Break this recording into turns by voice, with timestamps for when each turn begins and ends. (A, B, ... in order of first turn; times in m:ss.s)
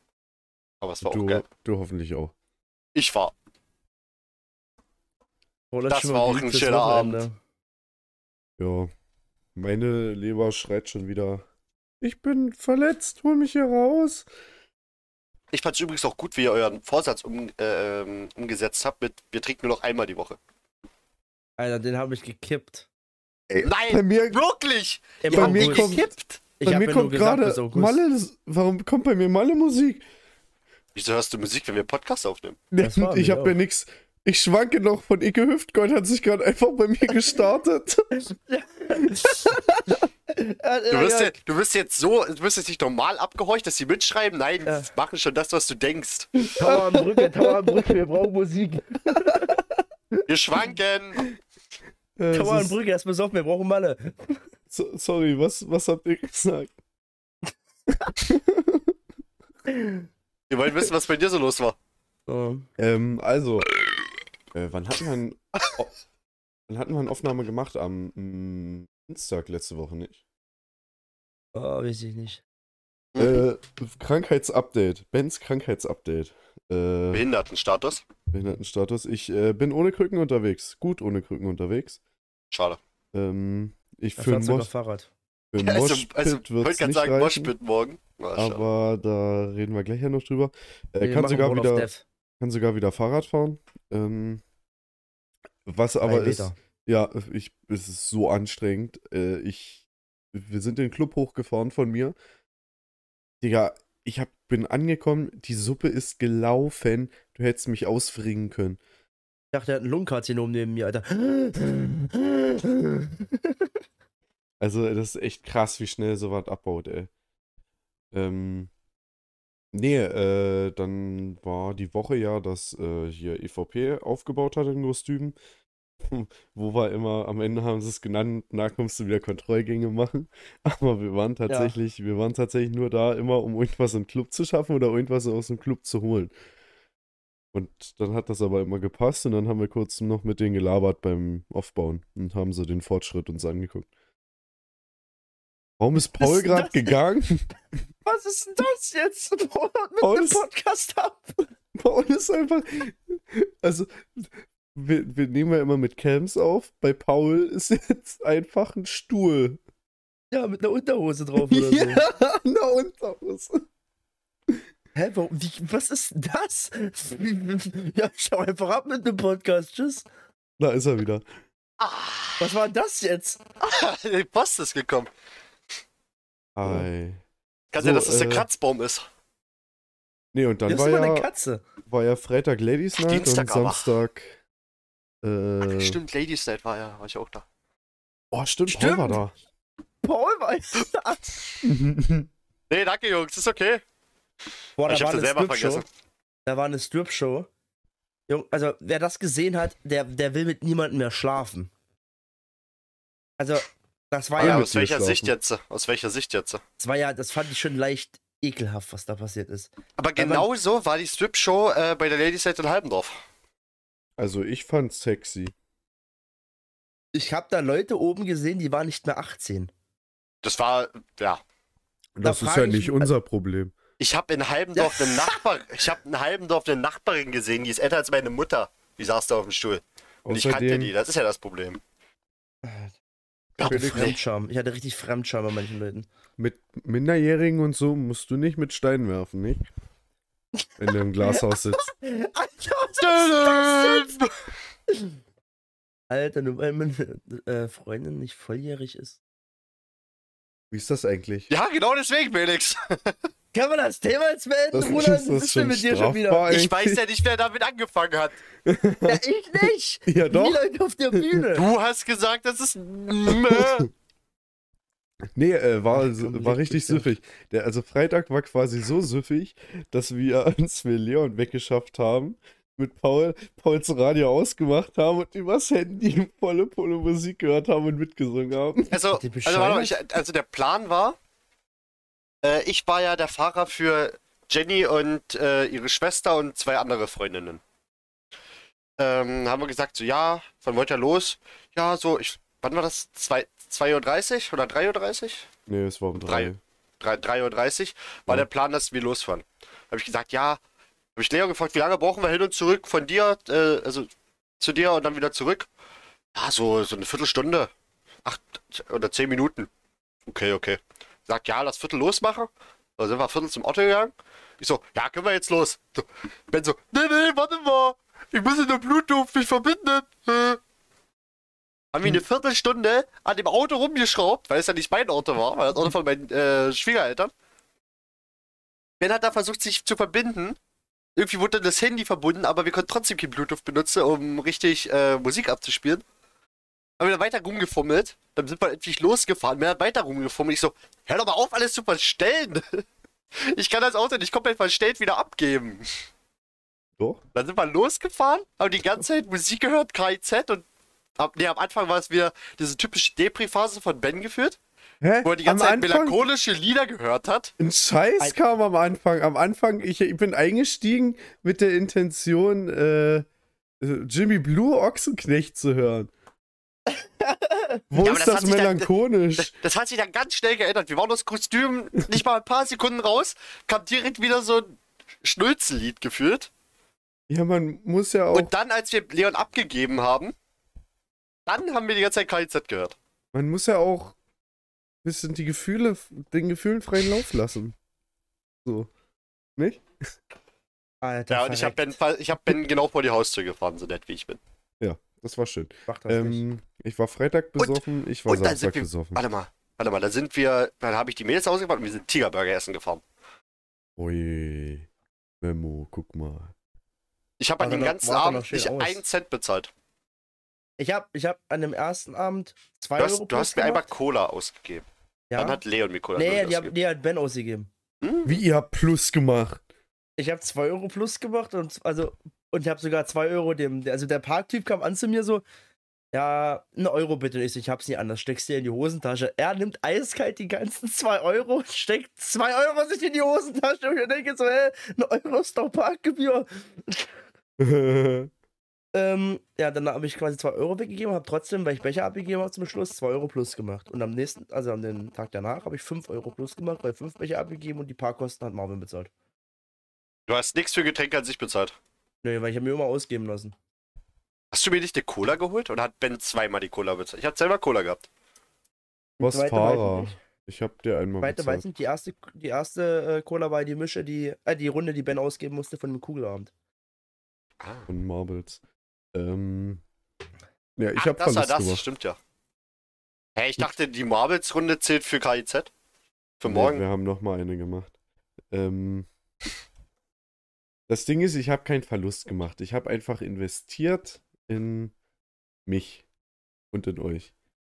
0:00.8-0:01.4 A
0:01.0-0:02.3 B
0:03.0-0:03.3 A
0:05.7-0:07.4 C
0:05.9-0:07.2 A
0:08.6-0:08.9 B
0:09.6-0:11.5 B
0:12.0-0:14.3 B
0:15.5-0:20.4 A
0:21.6-0:22.9 C
0:23.5-0:24.4 B
0:23.6-0:26.4 A
0:25.2-0:26.0 C
0:25.3-0:26.0 B
0:26.6-0:28.0 C
0:26.6-0:30.0 B
0:31.0-0:32.6 A
0:32.7-0:38.1 B
0:32.8-0:33.6 C
0:38.3-0:41.3 C
0:39.2-0:40.0 B
0:40.9-0:46.5 A
0:46.4-0:48.0 B
0:46.6-0:50.2 C
0:50.3-0:51.2 A
0:52.2-0:52.8 B
0:52.3-0:54.4 C
0:54.7-0:56.7 B
0:58.2-0:59.0 B
0:59.7-1:00.1 C
1:00.5-1:01.8 A
1:02.3-1:02.7 C
1:02.8-1:03.7 B
1:04.5-1:05.9 B
1:06.7-1:10.2 B
1:11.5-1:12.4 C
1:13.2-1:13.4 A
1:13.2-1:17.3 B
1:17.1-1:18.1 A
1:18.3-1:22.0 B
1:22.5-1:22.8 A
1:23.1-1:24.7 B
1:24.2-1:25.1 C
1:25.5-1:27.5 B
1:25.6-1:28.6 A
1:28.4-1:31.9 B
1:31.0-1:32.0 C
1:32.4-1:34.4 B
1:35.7-1:42.2 B
1:36.0-1:36.6 C
1:43.4-1:48.8 B
1:49.5-1:53.6 C
1:54.6-1:57.1 B
1:58.1-1:58.7 B
1:59.7-2:05.4 B
2:06.0-2:16.3 B
2:11.5-2:11.8 C
2:17.5-2:23.9 B
2:25.8-2:27.5 B
2:26.2-2:27.0 C
2:28.0-2:31.5 C
2:30.0-2:30.4 B
2:31.8-2:39.6 B
2:40.3-2:42.0 C
2:41.4-2:43.6 B
2:45.0-2:50.1 C
2:50.6-2:51.2 B
2:51.8-2:52.6 A
2:52.4-2:53.4 C
2:53.6-2:55.1 A
2:56.6-2:57.2 B
2:57.7-2:59.0 A
2:57.8-2:58.5 B
3:00.3-3:01.3 B
3:00.7-3:01.6 C
3:01.9-3:04.4 B
3:03.0-3:03.9 A
3:05.2-3:06.0 B
3:05.6-3:07.4 A
3:08.3-3:09.3 B
3:08.7-3:09.2 C
3:10.0-3:11.3 C
3:11.6-3:12.3 B
3:12.7-3:13.8 A
3:14.8-3:15.8 C
3:14.9-3:15.8 A
3:16.5-3:17.5 C
3:18.3-3:21.7 C
3:23.4-3:24.7 C
3:24.4-3:25.3 B
3:24.4-3:26.6 A
3:26.8-3:30.5 C
3:30.0-3:33.2 A
3:34.2-3:35.5 B
3:37.1-3:39.7 C
3:40.4-3:41.4 A
3:42.2-3:43.8 B
3:42.2-3:43.1 C
3:44.0-3:51.8 A
3:44.8-3:45.4 C
3:50.2-3:50.9 B
3:52.6-3:52.9 C
3:53.6-3:54.2 A
3:53.6-3:56.1 C
3:53.7-3:54.0 B
3:56.4-3:59.6 B
4:00.8-4:01.9 B
4:01.2-4:04.1 C
4:03.0-4:04.3 A
4:06.1-4:09.2 C
4:10.7-4:11.5 B
4:11.5-4:13.2 A
4:13.5-4:16.5 C
4:14.7-4:17.0 B
4:16.5-4:18.4 A
4:18.6-4:21.4 B
4:19.0-4:21.6 C
4:21.6-4:23.9 A
4:23.3-4:23.9 B
4:25.3-4:39.0 B
4:25.9-4:27.1 C
4:38.9-4:41.2 A
4:39.1-4:40.0 C
4:42.4-4:47.6 A
4:49.0-4:55.5 A
4:55.7-4:56.6 B
4:56.3-5:00.6 A
5:01.2-5:05.7 A
5:06.4-5:07.7 A
5:08.2-5:09.7 A
5:10.3-5:20.6 A
5:21.9-5:27.3 A
5:29.0-5:30.6 A
5:31.2-5:36.0 A
5:37.0-5:42.8 A
5:43.4-5:45.9 A
5:47.4-5:50.6 A
5:51.2-5:54.6 A
5:55.0-5:56.2 B
5:55.2-5:57.5 A
5:57.6-6:03.3 B
6:03.8-6:06.1 B
6:06.9-6:07.8 C
6:07.9-6:09.5 B
6:08.0-6:16.5 A
6:17.3-6:18.5 B
6:18.3-6:20.3 A
6:21.5-6:23.0 A
6:23.3-6:24.2 B
6:25.0-6:27.8 B
6:28.6-6:28.9 B
6:29.6-6:29.8 B
6:31.0-6:31.9 C
6:31.3-6:34.4 A
6:34.8-6:39.2 B
6:35.9-6:36.4 C
6:37.6-6:43.0 A
6:44.0-6:44.9 B
6:45.4-6:46.5 B
6:47.4-6:49.7 A
6:47.6-6:49.0 C
6:50.8-6:53.9 C
6:53.0-6:54.8 A
6:55.3-6:55.6 C
6:55.4-6:56.7 A
6:56.2-6:57.7 C
6:58.0-6:58.4 A
6:58.2-6:59.6 B
7:00.2-7:05.4 C
7:06.1-7:17.2 C
7:17.6-7:18.3 B
7:18.9-7:29.1 C
7:30.3-7:31.8 A
7:32.2-7:33.6 C
7:34.5-7:38.1 A
7:39.2-7:40.2 C
7:39.2-7:41.6 B
7:41.2-7:46.5 C
7:47.6-7:47.9 A
7:47.9-7:48.6 B
7:49.1-7:49.8 B
7:50.8-7:51.8 B
7:51.0-7:52.2 A
7:53.4-7:55.7 A
7:56.4-7:56.8 A
7:56.4-7:57.9 B
7:58.5-7:59.1 B
8:00.9-8:04.9 B
8:05.7-8:06.1 B
8:06.7-8:07.3 B